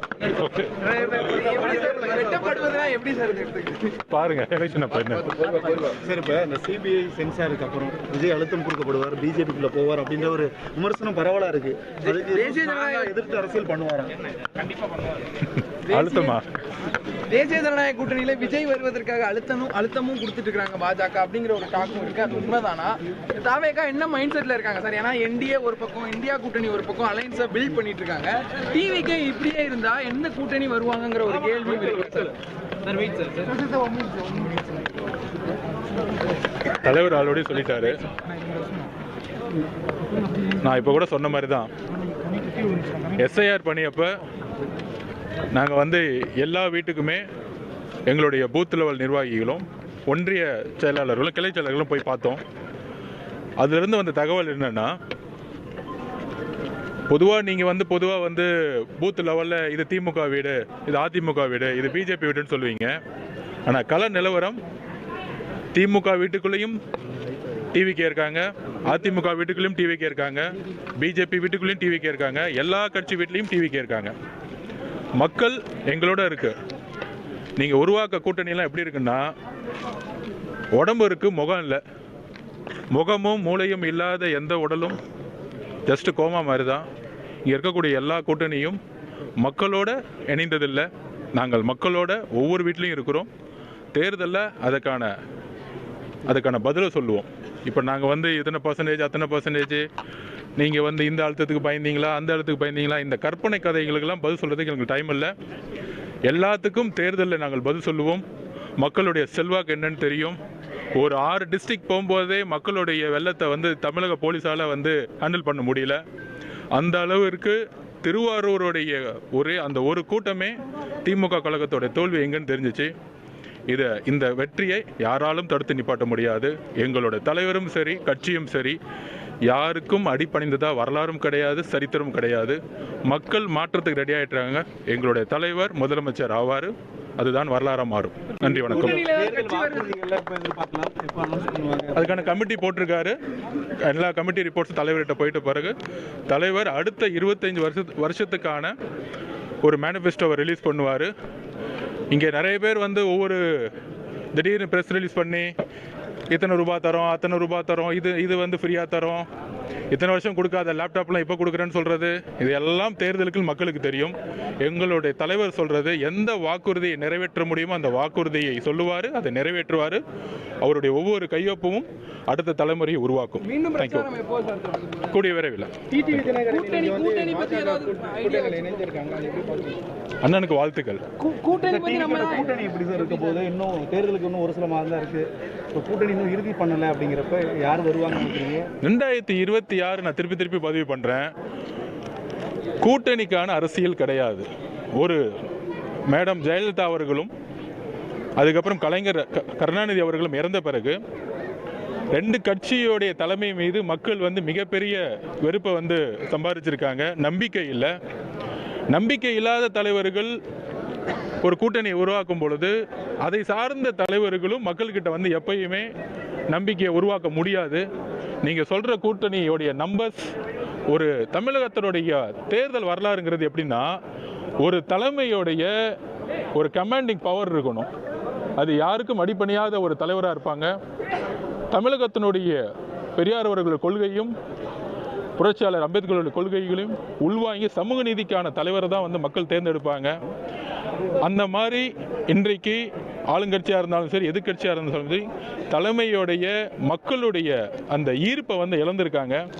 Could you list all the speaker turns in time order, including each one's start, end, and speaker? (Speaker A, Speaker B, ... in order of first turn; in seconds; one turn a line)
Speaker A: 0.2-0.8
Speaker B: 0.8-4.0
Speaker C: 1.2-2.2
Speaker A: 4.1-5.4
Speaker B: 5.3-5.9
Speaker C: 5.8-14.2
Speaker B: 12.0-13.1
Speaker B: 14.6-15.2
Speaker A: 15.6-16.5
Speaker B: 15.9-16.4
Speaker B: 17.3-33.5
Speaker A: 36.7-38.0
Speaker A: 40.6-41.7
Speaker A: 43.1-44.1
Speaker A: 45.5-47.2
Speaker A: 48.1-52.4
Speaker A: 53.6-55.0
Speaker A: 57.1-63.0
Speaker A: 63.7-64.6
Speaker A: 65.7-66.8
Speaker A: 67.7-74.1
Speaker A: 75.2-76.5
Speaker A: 77.6-79.3
Speaker A: 80.7-81.8
Speaker A: 82.9-85.0
Speaker A: 85.9-86.8
Speaker A: 87.4-88.8
Speaker A: 89.4-93.3
Speaker A: 93.9-95.1
Speaker A: 96.2-99.8
Speaker A: 100.6-105.3
Speaker A: 106.2-108.2
Speaker A: 108.8-110.4
Speaker A: 110.9-116.0
Speaker A: 116.7-122.9
Speaker A: 123.7-128.8
Speaker A: 129.4-139.0
Speaker C: 138.4-142.3
Speaker B: 138.7-139.9
Speaker A: 141.9-143.2
Speaker A: 143.8-145.8
Speaker A: 146.3-148.7
Speaker A: 149.6-151.1
Speaker A: 152.1-153.4
Speaker A: 154.3-155.5
Speaker A: 156.3-159.2
Speaker A: 159.9-170.0
Speaker A: 170.6-174.1
Speaker B: 173.4-175.1
Speaker A: 175.1-175.8
Speaker C: 175.9-179.8
Speaker B: 176.2-178.8
Speaker A: 180.2-181.0
Speaker B: 181.2-183.3
Speaker C: 181.5-188.7
Speaker A: 188.8-191.3
Speaker A: 192.8-194.4
Speaker A: 195.0-195.2
Speaker A: 196.1-197.3
Speaker A: 198.4-201.0
Speaker A: 202.1-207.9
Speaker A: 208.9-210.3
Speaker A: 211.4-215.9
Speaker A: 216.5-217.8
Speaker A: 218.4-220.3
Speaker A: 220.9-223.9
Speaker A: 224.6-225.7
Speaker A: 226.5-227.9
Speaker A: 228.6-230.7
Speaker A: 231.7-232.6
Speaker A: 233.2-234.3
Speaker A: 235.4-240.2
Speaker A: 241.2-249.4